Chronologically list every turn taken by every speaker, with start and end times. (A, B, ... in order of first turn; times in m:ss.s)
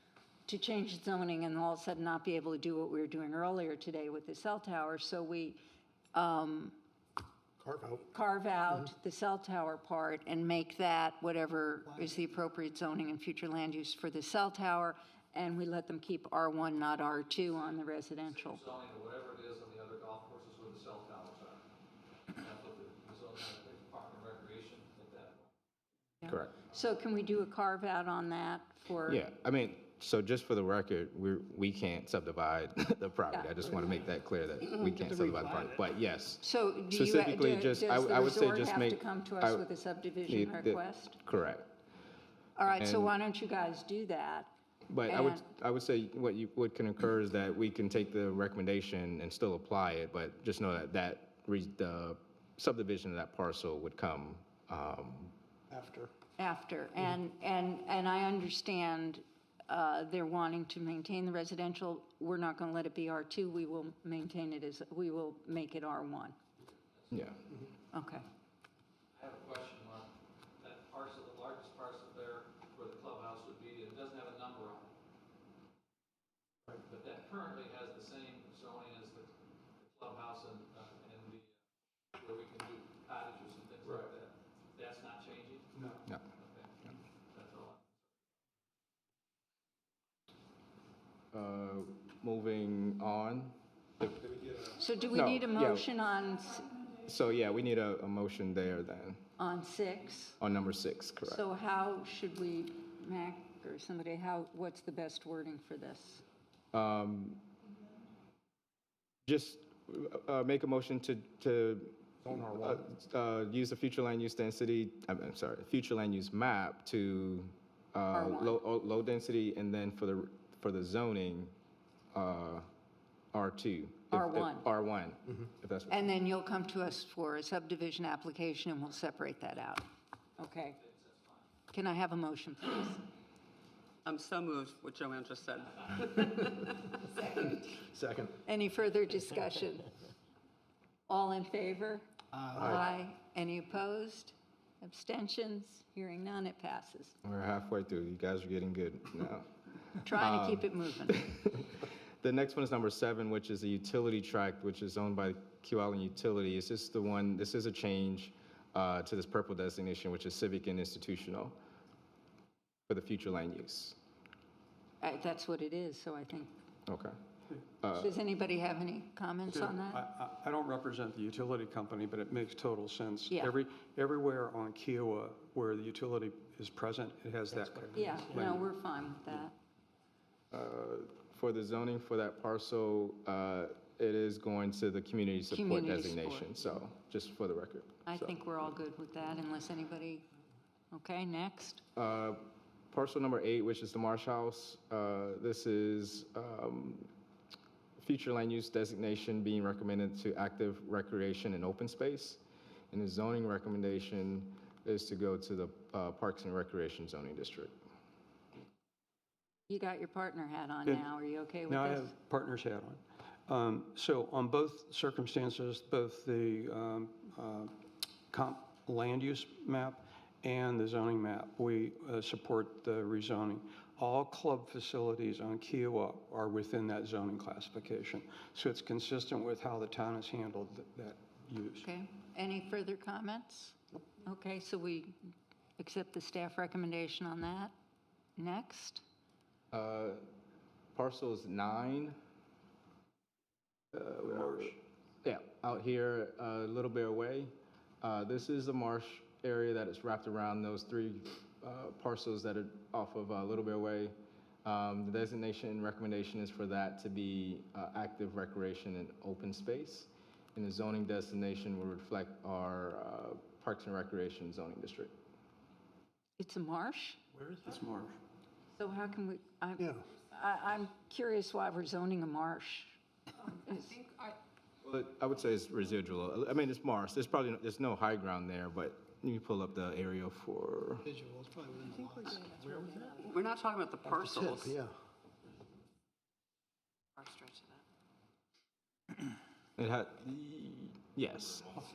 0:00.5-0:05.6 A
0:06.1-0:06.8 A
0:07.6-0:08.0 B
0:08.1-0:18.6 A
0:18.3-0:21.6 C
0:22.3-0:25.5 C
0:26.2-0:29.2 A
0:26.3-0:26.5 D
0:29.1-0:39.6 D
0:36.4-0:41.2 A
0:40.3-0:41.7 D
0:42.6-0:44.5 A
0:42.7-0:43.1 D
0:44.9-0:55.3 D
0:45.0-0:45.4 A
0:55.7-0:56.1 B
0:56.4-1:06.4 A
1:07.0-1:07.3 C
1:07.1-1:07.4 D
1:07.9-1:08.2 A
1:09.1-1:14.9 C
1:16.8-1:21.5 C
1:22.1-1:28.0 C
1:25.7-1:26.0 E
1:31.3-1:35.8 D
1:34.8-1:36.9 A
1:37.0-1:39.2 D
1:39.4-1:40.4 A
1:40.4-1:41.4 D
1:41.2-1:46.2 A
1:46.7-1:47.5 D
1:49.2-2:01.5 D
1:52.3-1:52.7 B
1:58.1-1:58.6 A
2:02.1-2:02.7 D
2:03.3-2:06.1 D
2:04.1-2:04.7 A
2:05.9-2:09.9 A
2:10.4-2:10.8 A
2:10.8-2:11.4 C
2:11.7-2:13.0 A
2:14.0-2:16.7 F
2:17.2-2:17.8 A
2:17.8-2:18.3 B
2:18.4-2:19.9 A
2:21.1-2:27.2 A
2:27.2-2:29.5 D
2:30.0-2:31.3 A
2:30.1-2:41.6 D
2:42.9-2:44.0 D
2:45.0-2:46.5 A
2:46.9-2:47.2 D
2:47.8-2:48.2 D
2:48.0-2:50.0 A
2:49.5-2:58.6 E
2:57.9-2:59.5 A
3:00.5-3:08.3 D
3:05.5-3:06.5 A
3:08.1-3:10.2 A
3:10.9-3:11.8 A
3:12.0-3:17.1 D
3:18.0-3:22.4 D
3:22.9-3:27.8 D
3:29.7-3:32.1 A
3:31.7-3:37.7 E
3:38.3-3:51.8 E
3:51.8-3:55.2 A
3:55.8-3:57.7 A
3:58.4-3:59.0 A
3:59.7-4:00.2 D
4:00.9-4:02.2 D
4:04.0-4:14.1 D
4:04.1-4:04.7 E
4:14.6-4:25.1 D
4:26.4-4:27.2 A
4:27.6-4:28.2 E
4:28.7-4:34.0 A
4:34.8-4:41.1 D
4:41.1-4:43.2 B
4:43.1-4:44.7 F
4:44.3-4:44.9 B
4:47.2-4:47.8 F
4:49.8-4:51.8 D